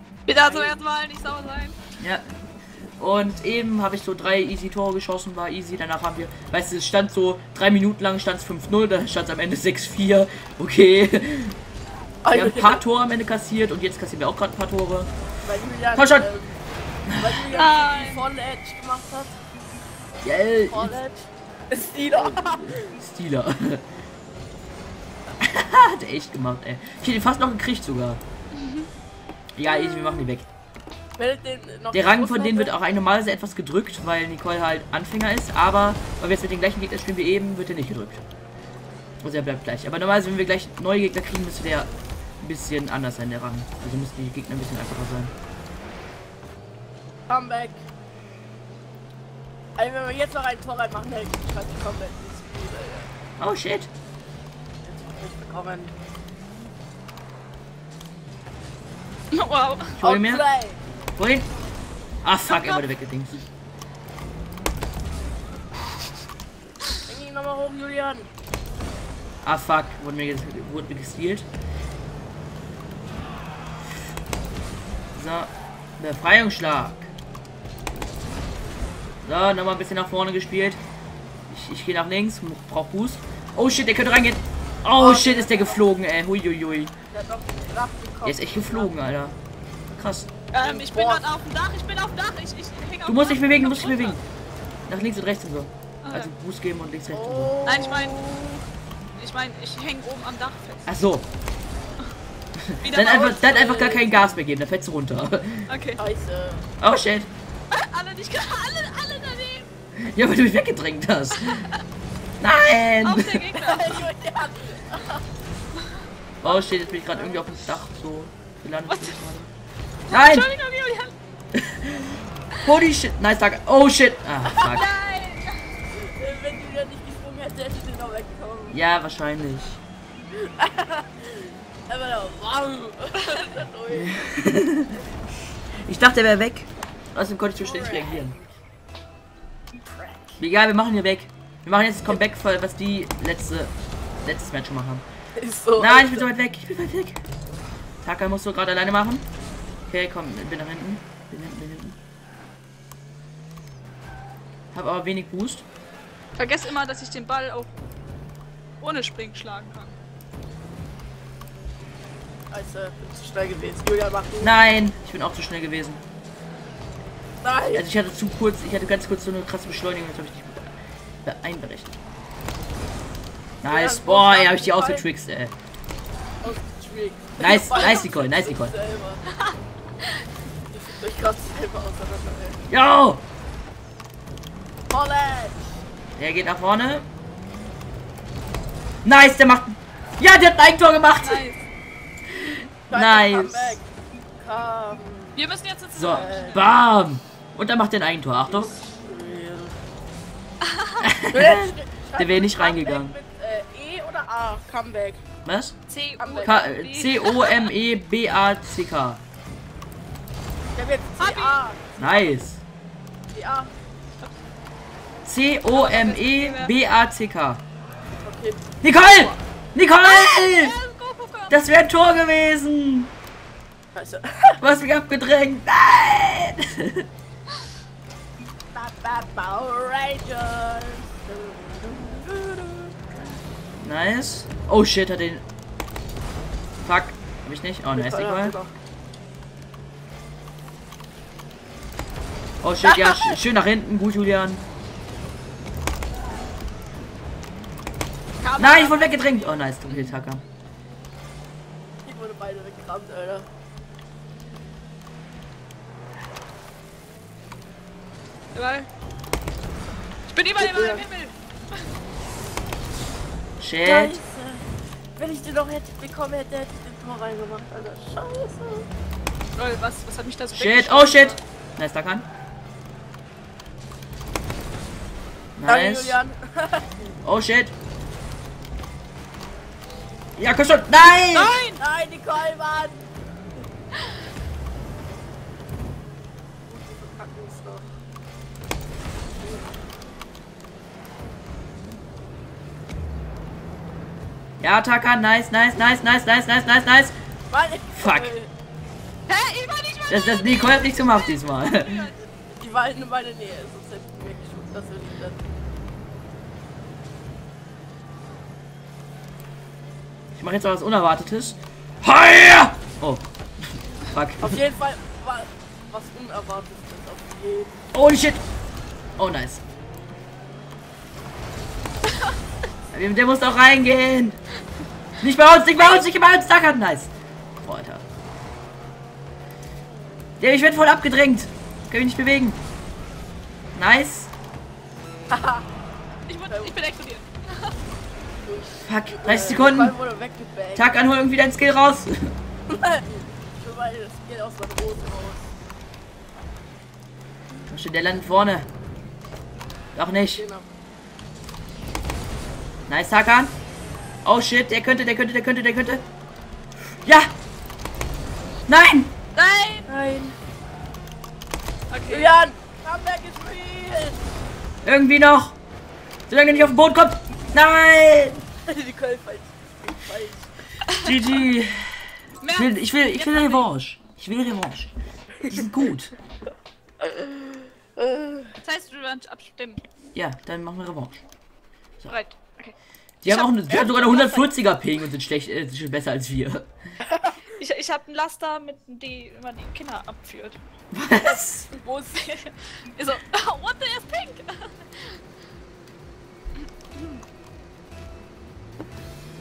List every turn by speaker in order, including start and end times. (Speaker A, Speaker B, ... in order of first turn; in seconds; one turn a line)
Speaker A: 0.3-1.8
Speaker B: 0.4-0.7
Speaker C: 3.0-11.6
Speaker B: 12.2-12.8
Speaker C: 12.3-15.1
Speaker B: 15.4-16.6
Speaker C: 15.9-16.3
Speaker C: 17.1-17.5
Speaker B: 17.1-19.4
Speaker A: 17.5-18.3
Speaker C: 20.2-20.9
Speaker B: 20.7-22.9
Speaker C: 22.1-23.8
Speaker C: 25.4-28.2
Speaker A: 28.5-28.9
Speaker C: 29.6-30.5
Speaker B: 29.7-30.3
Speaker B: 31.2-32.8
Speaker C: 31.9-38.2
Speaker C: 39.2-41.9
Speaker C: 42.4-45.3
Speaker B: 47.3-47.8
Speaker B: 49.8-53.1
Speaker C: 53.4-53.9
Speaker B: 54.8-55.9
Speaker A: 59.3-60.0
Speaker C: 60.0-60.4
Speaker B: 60.0-60.8
Speaker C: 61.2-61.5
Speaker C: 62.2-63.4
Speaker A: 62.5-62.8
Speaker B: 67.0-68.3
Speaker C: 69.4-71.5
Speaker C: 75.1-77.1
Speaker C: 79.2-80.8
Speaker C: 81.5-86.9
Speaker B: 84.9-85.9
Speaker B: 87.1-88.9
Speaker C: 88.2-89.4
Speaker C: 90.0-90.3
Speaker A: 90.5-94.2
Speaker B: 90.6-91.3
Speaker C: 93.0-94.2
Speaker C: 94.9-97.5
Speaker A: 96.0-96.3
Speaker B: 97.1-98.6
Speaker A: 97.6-98.2
Speaker A: 99.2-100.9
Speaker C: 100.9-101.2
Speaker C: 102.6-105.7
Speaker A: 102.8-103.3
Speaker B: 102.9-104.3
Speaker A: 105.7-106.0
Speaker B: 106.0-106.7
Speaker C: 106.8-107.3
Speaker A: 107.7-109.7
Speaker C: 110.0-111.7
Speaker A: 111.4-111.8
Speaker C: 112.4-113.4
Speaker A: 113.0-114.0
Speaker B: 113.6-115.2
Speaker C: 116.4-119.5
Speaker B: 116.4-117.6
Speaker A: 118.9-119.2
Speaker A: 120.1-121.1
Speaker C: 120.1-120.5
Speaker C: 121.5-124.9
Speaker A: 124.6-125.6
Speaker B: 125.9-128.8
Speaker C: 128.7-129.8
Speaker B: 130.3-134.3
Speaker C: 133.9-135.0
Speaker C: 135.8-138.3
Speaker B: 137.6-138.5
Speaker B: 139.8-140.4
Speaker C: 140.4-143.7
Speaker C: 144.2-145.0
Speaker B: 145.4-146.2
Speaker C: 145.8-147.2
Speaker C: 148.0-149.2
Speaker C: 149.9-151.9
Speaker C: 154.7-155.6
Speaker A: 156.4-157.7
Speaker A: 158.8-159.9
Speaker B: 162.5-164.6
Speaker C: 164.4-166.0
Speaker B: 167.4-167.8
Speaker C: 167.7-170.7
Speaker C: 171.2-172.0
Speaker C: 173.6-175.5
Speaker B: 173.7-175.0
Speaker B: 176.4-179.2
Speaker C: 177.4-178.7
Speaker A: 177.7-178.0
Speaker A: 179.3-179.6
Speaker B: 180.7-182.6
Speaker C: 182.7-183.2
Speaker B: 184.9-185.8
Speaker C: 186.2-187.1
Speaker C: 189.0-191.4
Speaker A: 191.2-191.6
Speaker C: 192.4-193.8
Speaker B: 192.9-193.8
Speaker B: 194.4-195.5
Speaker A: 195.3-196.6
Speaker C: 195.9-198.7
Speaker B: 196.1-196.6
Speaker B: 198.5-199.8
Speaker A: 200.6-201.1
Speaker C: 201.0-203.2
Speaker B: 201.2-205.2
Speaker C: 205.4-205.8
Speaker A: 205.9-207.7
Speaker B: 206.2-206.7
Speaker C: 206.4-209.2
Speaker B: 210.7-212.3
Speaker A: 211.2-211.6
Speaker C: 212.0-212.6
Speaker B: 213.3-213.7
Speaker C: 215.2-217.6
Speaker A: 215.7-216.7
Speaker B: 218.2-218.7
Speaker C: 218.8-220.8
Speaker A: 218.9-219.3
Speaker A: 220.0-221.6
Speaker C: 221.5-223.1
Speaker B: 223.9-224.6
Speaker C: 224.6-227.1
Speaker B: 228.7-233.3
Speaker C: 233.8-235.4
Speaker C: 236.8-238.6
Speaker B: 237.9-238.7
Speaker C: 242.6-244.6
Speaker B: 242.8-243.4
Speaker A: 248.4-250.1
Speaker C: 248.6-250.4
Speaker B: 252.0-253.4
Speaker A: 258.5-258.9
Speaker A: 260.3-261.3
Speaker B: 260.6-261.0
Speaker C: 263.6-264.2
Speaker B: 263.8-264.6
Speaker B: 265.1-268.9
Speaker A: 269.5-271.4
Speaker C: 270.5-272.2
Speaker C: 275.6-276.2
Speaker B: 275.6-276.9
Speaker C: 277.2-277.7
Speaker C: 280.4-281.6
Speaker A: 281.3-281.8
Speaker B: 281.7-283.1
Speaker B: 286.6-287.9
Speaker B: 289.4-289.8
Speaker C: 294.6-297.1
Speaker B: 297.5-298.5
Speaker C: 297.9-298.3
Speaker A: 299.3-302.1
Speaker C: 300.1-302.1
Speaker B: 302.6-305.4
Speaker C: 310.4-313.2
Speaker C: 314.1-314.6
Speaker B: 314.4-317.8
Speaker C: 317.9-318.4
Speaker C: 319.2-319.6
Speaker C: 322.9-324.4
Speaker C: 325.2-327.1
Speaker A: 325.8-326.1
Speaker C: 327.6-328.0
Speaker C: 330.4-332.6
Speaker C: 333.7-334.3
Speaker B: 335.3-335.7
Speaker A: 336.3-337.7
Speaker B: 336.5-336.8
Speaker B: 338.4-340.9
Speaker C: 338.8-339.9
Speaker C: 340.8-342.3
Speaker B: 342.7-345.5
Speaker C: 347.7-348.7
Speaker C: 349.9-350.4
Speaker B: 350.3-350.6
Speaker C: 352.9-353.5
Speaker C: 354.2-356.0
Speaker C: 357.0-357.3
Speaker C: 358.7-359.1
Speaker A: 359.3-359.9
Speaker B: 359.9-360.4
Speaker A: 361.9-362.3
Speaker B: 362.1-364.2
Speaker C: 364.8-365.6
Speaker C: 366.3-368.4
Speaker B: 368.7-370.5
Speaker C: 370.9-374.9
Speaker A: 372.4-373.7
Speaker C: 375.4-376.1
Speaker B: 377.0-378.5
Speaker A: 378.6-379.8
Speaker C: 380.1-381.2
Speaker A: 382.1-382.7
Speaker C: 383.2-386.7
Speaker A: 383.2-384.5
Speaker B: 387.1-387.4
Speaker A: 387.6-390.6
Speaker C: 390.9-391.7
Speaker B: 391.1-392.2
Speaker A: 392.1-395.2